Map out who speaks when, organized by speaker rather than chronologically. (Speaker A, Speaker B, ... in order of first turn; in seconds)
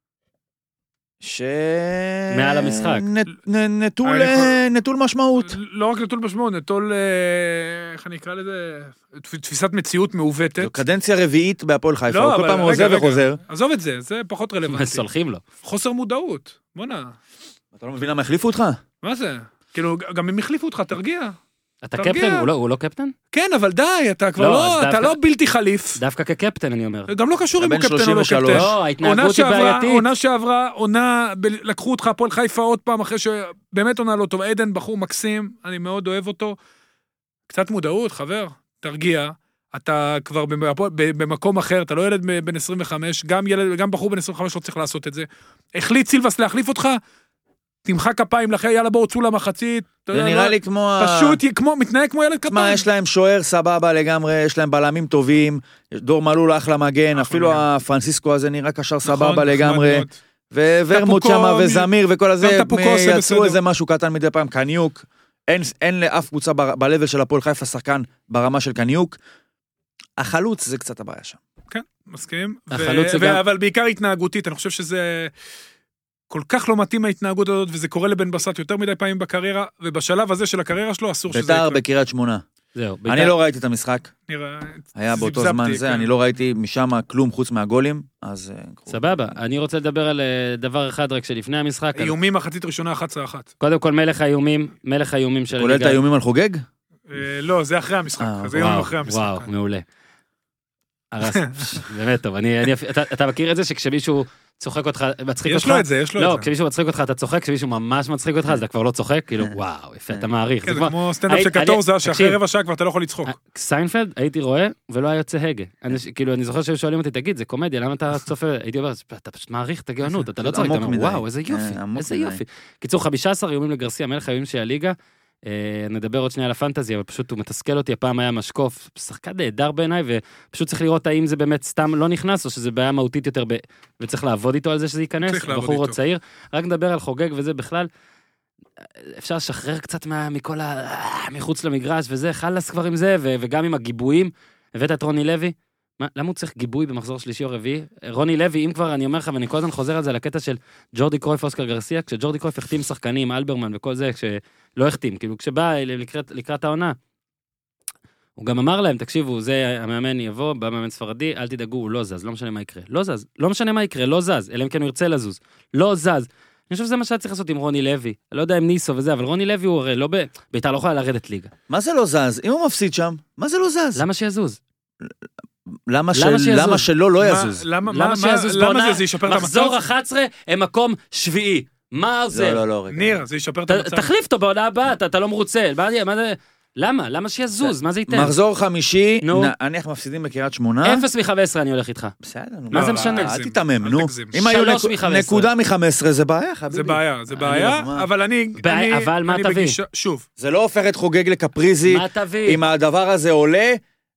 Speaker A: 1.2-5.6, 10.6-13.4, 17.8-18.8, 27.6-28.7, 50.1-51.4, 52.5-69.2, 70.2-71.4, 81.3-82.4, 83.1-84.1, 85.0-89.3, 95.6-96.6, 98.2-98.6, 120.4-122.4, 171.7-174.0, 175.7-177.7, 182.3-183.2, 187.6-191.1, 192.2-198.1, 200.4-203.8
Speaker B: 2.3-3.1, 14.7-15.4, 21.8-23.1, 24.4-25.2, 26.0-27.1, 28.5-30.1, 72.7-73.4, 82.8-83.3, 88.9-92.2, 93.6-96.0, 98.6-99.8, 101.1-112.4, 113.3-125.0, 125.5-137.9, 139.0-157.0, 158.4-171.5, 174.0-174.6, 176.1-176.9, 177.9-182.6, 183.7-188.3, 189.2-189.5, 190.8-192.1, 192.7-193.3, 194.4-195.5, 198.6-199.8, 201.9-202.6
Speaker C: 4.0-4.6, 5.4-10.8, 12.1-15.1, 15.6-17.1, 19.0-21.4, 22.0-22.5, 23.3-26.0, 27.1-36.6, 37.5-47.0, 47.9-52.9, 57.1-57.6, 59.0-60.1, 60.9-61.9, 62.4-63.6, 71.7-75.3, 76.3-81.8, 84.3-86.1, 92.0-93.5, 97.1-99.5, 101.2-101.8, 105.5-106.5, 110.7-113.3, 135.2-136.0, 177.2-179.8, 182.9-184.1, 192.7-194.4, 196.7-200.2